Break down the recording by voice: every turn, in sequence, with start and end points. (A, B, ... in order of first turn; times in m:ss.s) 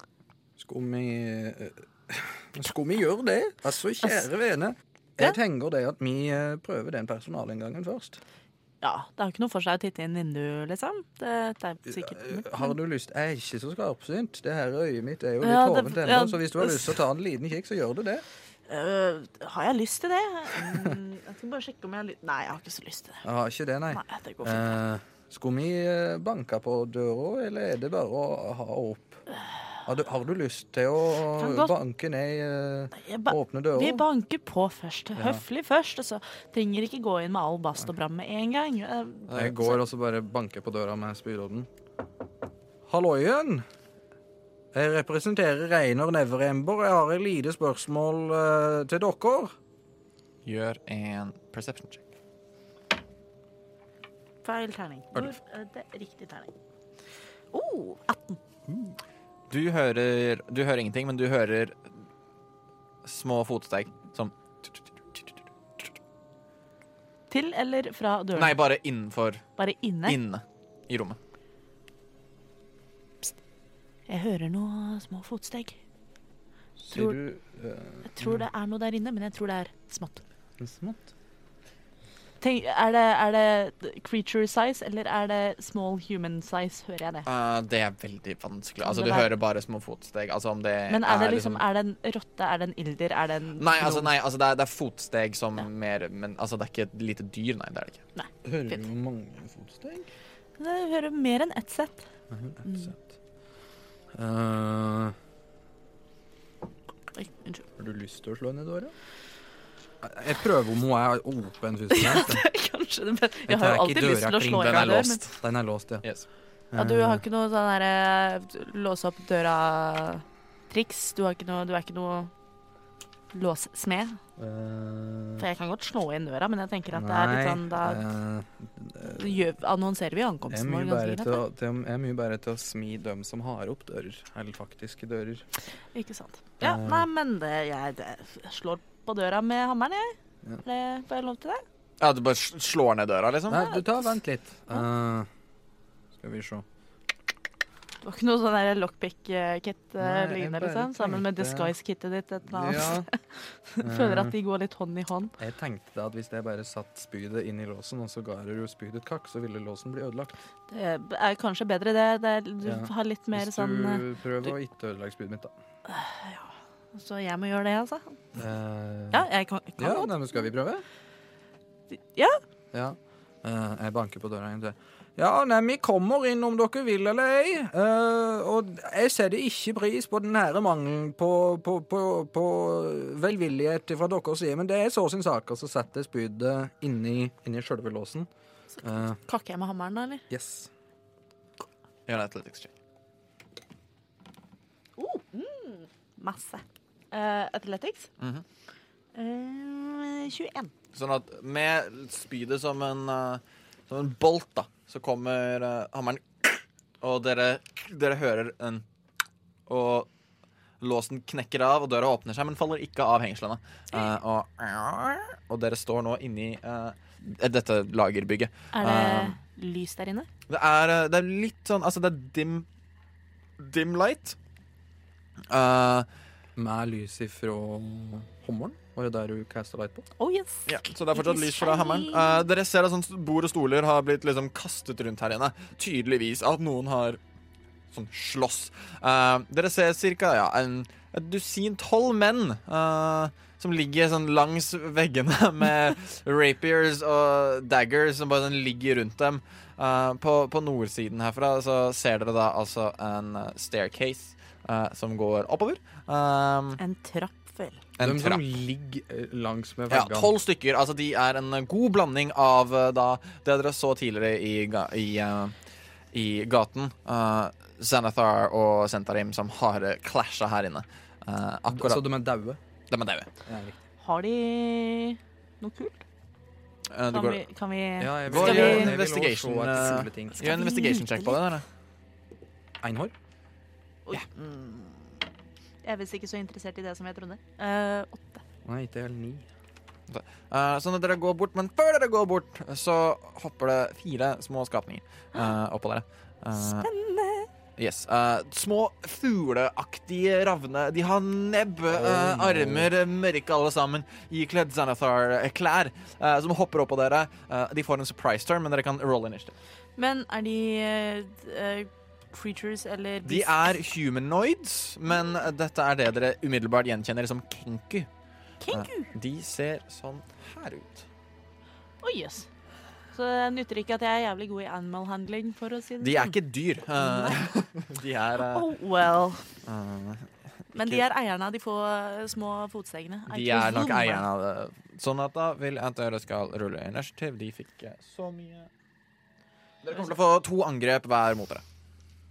0:00.6-0:08.2 A
0:08.8-0:12.8 B
0:11.9-0:18.2 A
0:15.4-0:17.0 B
0:18.7-0:23.2 B
0:23.2-0:29.2 A
0:23.9-0:24.8 B
0:29.8-0:34.0 A
0:31.4-0:31.7 B
0:33.0-0:39.8 B
0:35.2-0:35.4 A
0:39.3-0:39.6 C
0:39.3-0:41.7 A
0:42.9-0:43.7 A
0:44.7-0:49.5 A
0:50.4-0:52.0 C
0:54.4-0:56.5 B
0:57.5-0:58.4 B
0:58.7-0:59.0 C
0:59.5-1:02.0 C
1:03.0-1:05.9 C
1:07.3-1:08.6 B
1:08.4-1:09.5 C
1:09.6-1:10.2 B
1:10.0-1:11.2 C
1:14.1-1:15.8 B
1:16.8-1:18.4 A
1:16.9-1:17.2 B
1:18.1-1:20.2 B
1:20.6-1:21.1 A
1:22.4-1:27.3 B
1:27.3-1:31.6 C
1:28.8-1:29.3 B
1:30.9-1:34.1 B
1:33.6-1:38.0 C
1:38.2-1:38.8 B
1:38.4-1:40.1 A
1:40.6-1:42.1 B
1:42.3-1:42.6 A
1:42.6-1:42.9 B
1:44.1-1:45.2 A
1:47.2-1:47.6 B
1:47.8-1:49.0 A
1:50.0-1:52.4 A
1:51.9-1:55.2 B
1:53.5-1:56.1 A
1:54.6-1:55.4 C
1:56.7-1:57.2 A
1:56.7-2:02.3 B
2:03.3-2:04.2 B
2:04.4-2:05.4 A
2:05.4-2:08.0 B
2:06.9-2:09.2 A
2:09.0-2:11.4 B
2:10.5-2:15.5 A
2:15.9-2:21.6 B
2:16.6-2:17.1 A
2:22.0-2:23.7 C
2:23.5-2:25.3 A
2:23.6-2:24.1 B
2:26.2-2:26.6 A
2:28.0-2:35.3 B
2:30.0-2:31.7 A
2:32.5-2:33.1 A
2:33.8-2:34.4 A
2:35.4-2:40.4 A
2:40.7-2:44.6 B
2:42.6-2:45.5 A
2:45.8-2:48.2 B
2:48.4-2:49.3 A
2:49.1-2:50.5 B
2:49.8-2:50.8 A
2:51.9-2:52.4 B
2:52.7-3:08.3 A
3:08.7-3:10.2 B
3:08.8-3:09.2 A
3:10.3-3:10.7 A
3:12.1-3:12.7 C
3:15.0-3:18.1 B
3:18.2-3:18.4 C
3:19.2-3:20.7 B
3:20.9-3:28.9 C
3:29.7-3:30.1 C
3:30.8-3:39.4 C
3:38.7-3:40.3 B
3:40.5-3:42.7 C
3:43.6-3:44.4 C
3:45.5-3:46.1 C
3:46.6-3:50.1 A
3:50.2-3:52.5 B
3:50.7-3:57.2 C
3:57.9-4:16.8 C
4:16.8-4:17.8 B
4:18.0-4:18.4 C
4:18.0-4:20.3 A
4:19.9-4:25.6 C
4:26.1-4:32.1 C
4:31.7-4:32.6 A
4:32.9-4:33.3 C
4:33.5-4:33.8 A
4:34.0-4:36.0 B
4:36.9-4:37.4 C
4:37.1-4:39.0 B
4:38.0-4:40.4 A
4:38.3-4:41.6 C
4:40.4-4:41.4 B
4:42.8-4:43.1 A
4:44.1-4:45.2 B
4:45.8-4:48.4 B
4:48.6-4:49.5 A
4:50.1-4:56.9 C
4:56.6-4:57.5 B
4:57.8-5:09.6 C
5:01.9-5:02.9 A
5:10.0-5:13.6 B
5:13.2-5:18.1 C
5:18.6-5:19.1 B
5:18.7-5:21.1 C
5:22.0-5:22.5 B
5:23.1-5:26.4 B
5:26.0-5:28.7 C
5:27.0-5:27.5 B
5:28.4-5:29.6 B
5:29.6-5:31.0 C
5:30.7-5:34.3 B
5:33.3-5:38.7 C
5:39.8-5:41.6 C